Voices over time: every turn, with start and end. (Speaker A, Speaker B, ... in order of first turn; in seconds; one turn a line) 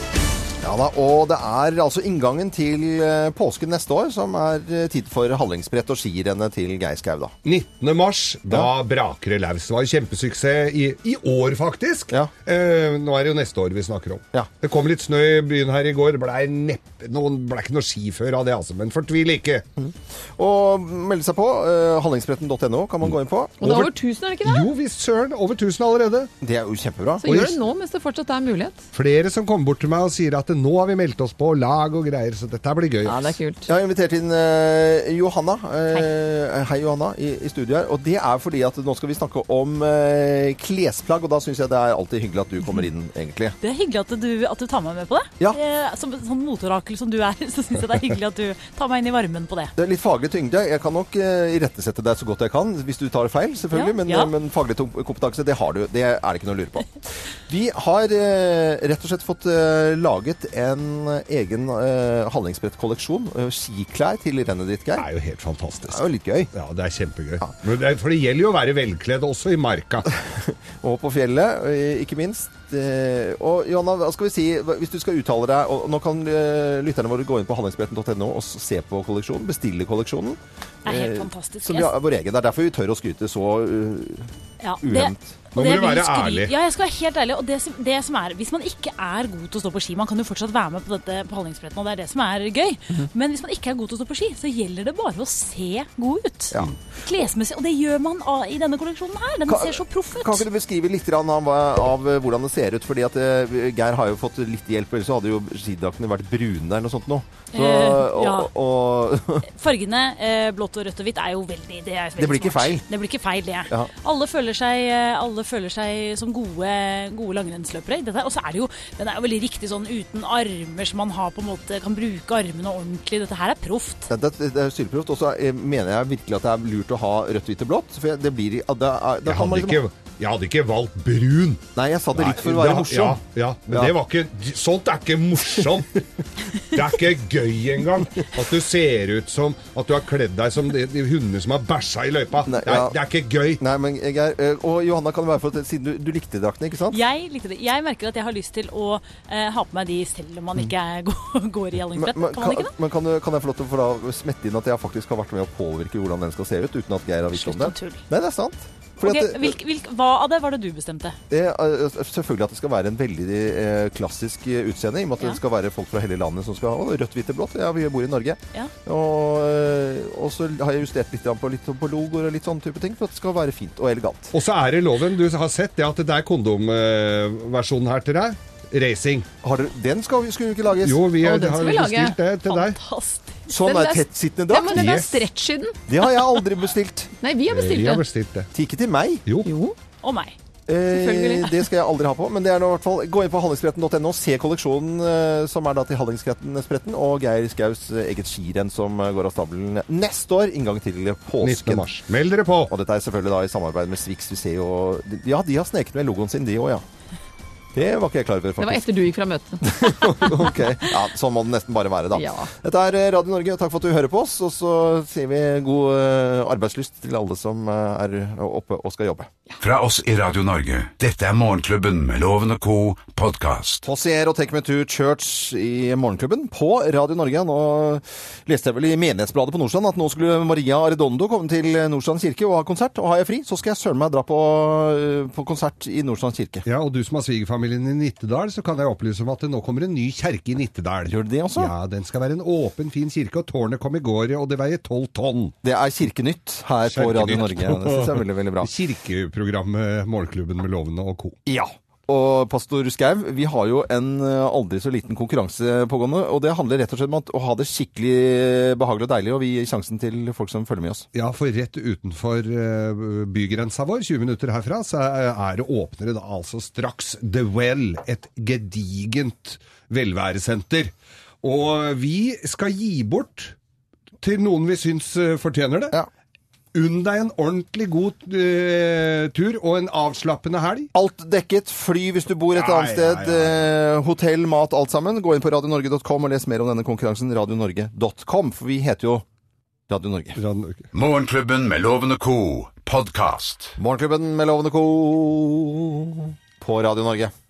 Speaker A: 0.6-7.3
Speaker B: 7.5-19.6
Speaker A: 19.8-23.6
Speaker C: 23.6-24.7
Speaker B: 23.6-26.3
Speaker A: 26.4-27.3
Speaker C: 27.2-28.8
Speaker B: 27.3-27.6
Speaker B: 28.9-33.4
Speaker C: 33.0-33.7
Speaker A: 33.7-43.6
Speaker D: 43.6-49.7
Speaker A: 49.8-56.9
Speaker D: 53.7-54.3
Speaker A: 57.5-65.1
Speaker B: 65.0-70.1
Speaker A: 65.9-66.5
Speaker A: 70.3-85.4
Speaker D: 80.8-81.9
Speaker D: 84.6-100.4
Speaker B: 85.5-86.5
Speaker A: 99.5-109.5
Speaker D: 107.5-108.5
Speaker D: 109.5-124.1
Speaker A: 112.2-112.9
Speaker A: 124.1-129.8
Speaker B: 129.3-136.0
Speaker A: 131.8-133.9
Speaker B: 136.6-143.6
Speaker A: 142.5-143.0
Speaker A: 143.6-147.0
Speaker D: 146.9-152.7
Speaker A: 151.9-159.6
Speaker D: 157.4-158.0
Speaker D: 159.0-161.2
Speaker A: 161.3-174.3
Speaker B: 174.3-179.3
Speaker A: 179.4-181.0
Speaker B: 180.8-182.8
Speaker C: 181.2-182.2
Speaker D: 182.4-183.5
Speaker A: 183.5-184.9
Speaker C: 183.6-185.8
Speaker B: 184.7-185.3
Speaker A: 185.9-187.1
Speaker C: 187.2-188.1
Speaker B: 187.5-188.5
Speaker A: 188.5-189.2
Speaker B: 189.3-189.5
Speaker C: 189.4-189.8
Speaker D: 190.0-190.4
Speaker A: 190.7-201.9
Speaker C: 190.9-191.5
Speaker B: 201.4-202.7
Speaker A: 202.7-206.8
Speaker A: 207.7-208.9
Speaker C: 208.6-210.3
Speaker A: 209.6-219.3
Speaker C: 212.1-212.5
Speaker E: 219.6-223.9
Speaker A: 223.9-236.7
Speaker B: 236.7-245.5
Speaker A: 241.1-241.7
Speaker A: 245.6-248.7
Speaker B: 246.9-251.4
Speaker A: 251.5-261.1
Speaker B: 261.1-270.9
Speaker B: 271.4-273.6
Speaker B: 274.2-276.0
Speaker B: 276.7-280.9
Speaker A: 280.9-289.2
Speaker B: 282.6-283.7
Speaker A: 289.9-290.4
Speaker B: 290.4-290.9
Speaker E: 290.9-293.8
Speaker A: 293.8-297.3